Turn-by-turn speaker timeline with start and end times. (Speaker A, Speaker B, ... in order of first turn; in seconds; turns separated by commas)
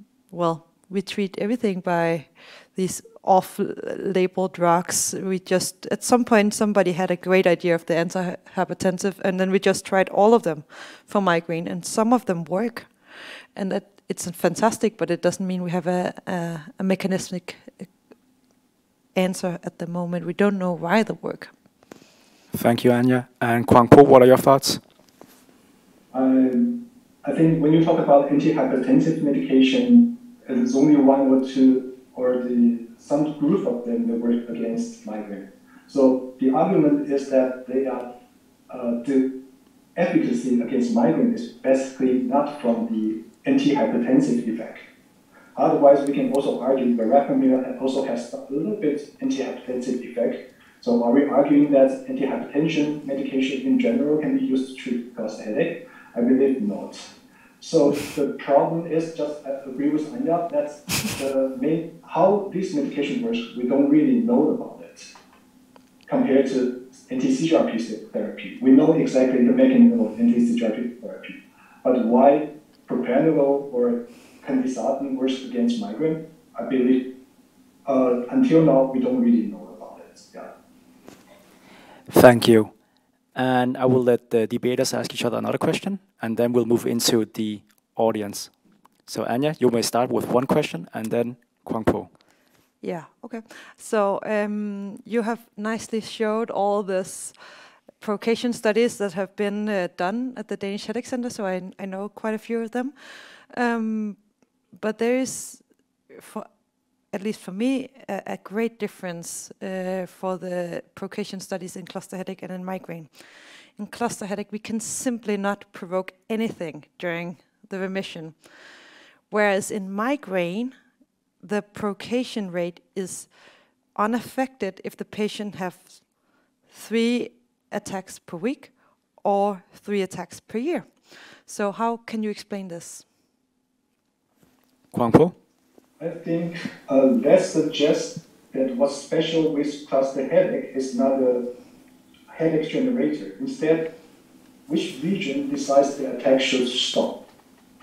Speaker A: 0.3-17.9, Speaker A: 19.1-21.5, Speaker B: 22.5-24.8, Speaker C: 26.1-38.1, Speaker C: 38.7-39.3, Speaker C: 40.0-44.8, Speaker C: 45.5-57.0, Speaker C: 57.6-65.1, Speaker C: 66.1-77.1, Speaker C: 77.8-80.5, Speaker B: 82.1-82.7, Speaker B: 83.3-88.5, Speaker B: 89.1-92.1, Speaker A: 92.8-97.3, Speaker A: 98.0-104.2, Speaker A: 104.7-106.5, Speaker A: 107.1-113.1, Speaker A: 113.8-118.3, Speaker A: 119.3-120.7, Speaker A: 121.4-123.3, Speaker A: 123.9-126.0, Speaker A: 126.7-133.0, Speaker B: 134.9-135.3, Speaker C: 136.0-141.5, Speaker C: 142.3-143.9, Speaker C: 144.7-147.2